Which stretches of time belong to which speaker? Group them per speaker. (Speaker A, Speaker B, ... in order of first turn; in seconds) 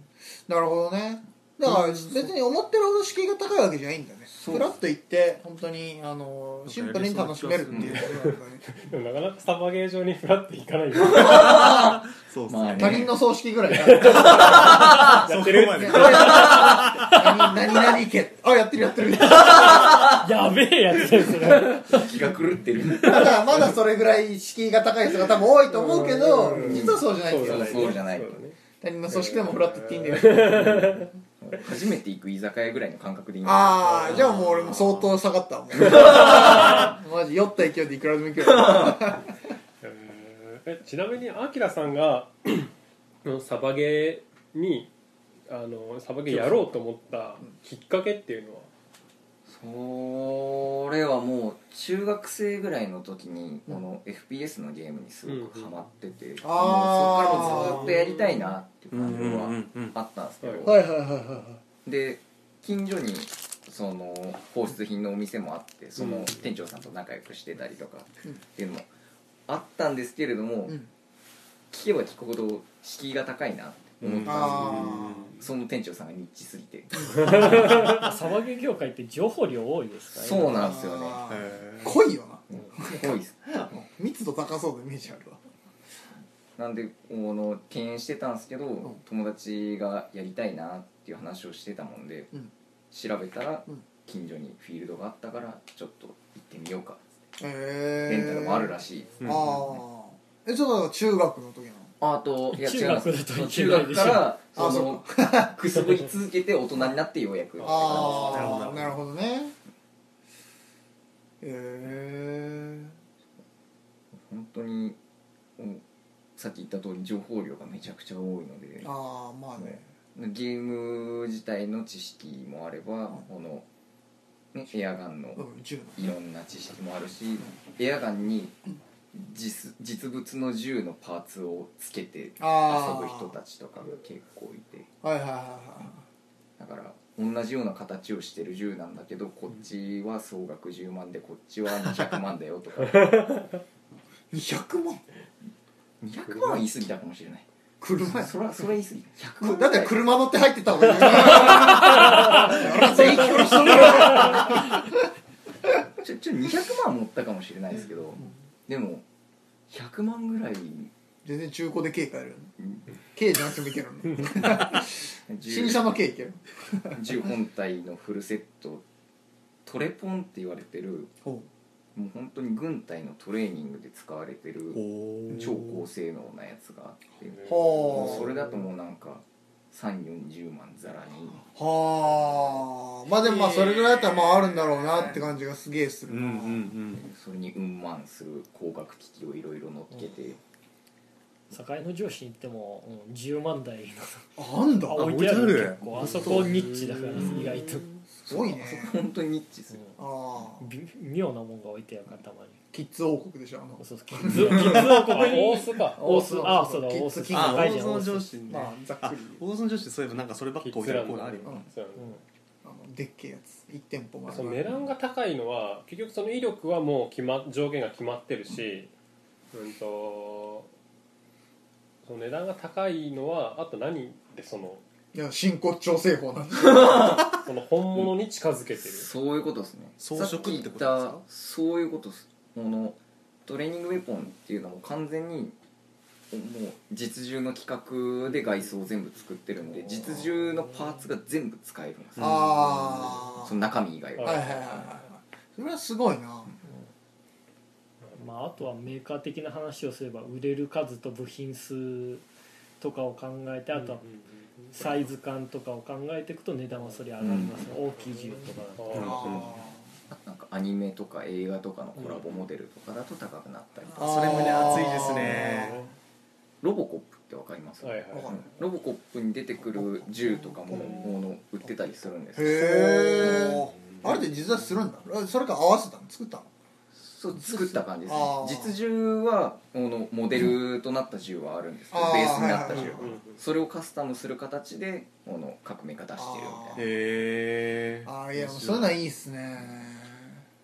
Speaker A: 0.5-8.7, 11.4-11.7, 12.8-20.1, 23.0-28.0, 28.8-30.8, 33.4-39.3, 56.4-58.0, 60.7-61.5, 74.2-75.3, 77.0-77.3, 80.5-85.4, 97.4-101.9, 104.5-105.5, 107.6-109.6, 111.4-113.0, 118.8-119.9, 125.4-126.1, 132.4-133.3, 135.0-136.0, 144.3-145.0, 147.8-148.4, 149.4-155.0, 161.2-162.5, 163.1-167.1, 177.5-178.3, 181.5-186.7, 194.4-195.1, 198.2-198.9, 200.0-200.7, 202.7-204.9, 205.9-207.8, 208.5-209.4, 212.6-214.7, 225.1-227.2, 242.2-243.6, 244.2-246.5, 259.0-259.9, 263.9-265.9, 268.1-268.5, 270.0-271.1, 272.4-276.5, 277.4-278.8, 281.9-283.2, 286.2-286.8, 288.1-290.4
Speaker B: 1.7-2.3, 6.7-8.2, 11.7-13.1, 14.7-17.2, 34.2-35.1, 58.9-60.0, 74.0-75.4, 81.3-82.0, 99.2-99.7, 108.0-109.0, 174.7-175.8, 186.1-187.1, 194.9-197.6, 204.6-205.1, 207.3-211.7, 230.0-231.2, 242.2-242.7, 258.9-259.5, 263.9-265.8, 272.9-274.2, 286.8-289.0
Speaker C: 4.3-4.7, 11.1-13.1, 14.2-15.2, 15.9-16.8, 19.5-20.2, 21.7-23.7, 26.6-28.4, 31.4-34.2, 35.8-36.6, 49.5-60.8, 61.8-68.9, 69.5-70.8, 71.7-77.8, 80.1-81.2, 82.5-83.7, 86.6-92.3, 92.9-97.0, 98.1-99.4, 102.0-108.6, 114.1-115.0, 116.4-118.9, 119.6-123.7, 124.5-128.6, 129.1-134.9, 136.6-143.4, 146.0-147.5, 148.0-150.1, 151.0-151.7, 152.6-154.5, 156.0-159.0, 159.7-160.9, 164.3-164.7, 165.3-165.8, 166.9-168.8, 169.7-171.1, 171.9-181.4, 187.0-190.4, 196.1-196.4, 198.3-199.8, 226.6-227.4, 228.8-235.6, 236.3-244.8, 257.2-257.6, 260.1-264.6, 266.6-272.7, 277.0-286.8
Speaker D: 8.7-11.6, 13.9-16.6, 25.7-28.6, 29.1-31.1, 33.8-34.3, 39.8-42.7, 43.2-44.9, 45.5-48.7, 55.3-55.8, 57.4-58.4, 60.4-60.7, 66.0-66.3, 143.0-143.5, 177.5-178.0, 204.7-206.0, 210.6-212.2, 214.3-218.9, 219.5-220.7, 222.0-224.8, 227.4-229.1, 244.2-244.9, 253.8-254.8, 258.0-259.5, 262.0-262.2, 265.5-265.9, 267.8-268.5, 270.7-271.1, 282.7-283.4
Speaker E: 19.4-22.1, 77.2-80.7, 102.5-104.3, 191.5-194.3, 194.9-197.9, 200.6-202.6, 203.8-208.3, 248.2-252.2, 252.8-254.0, 254.7-259.2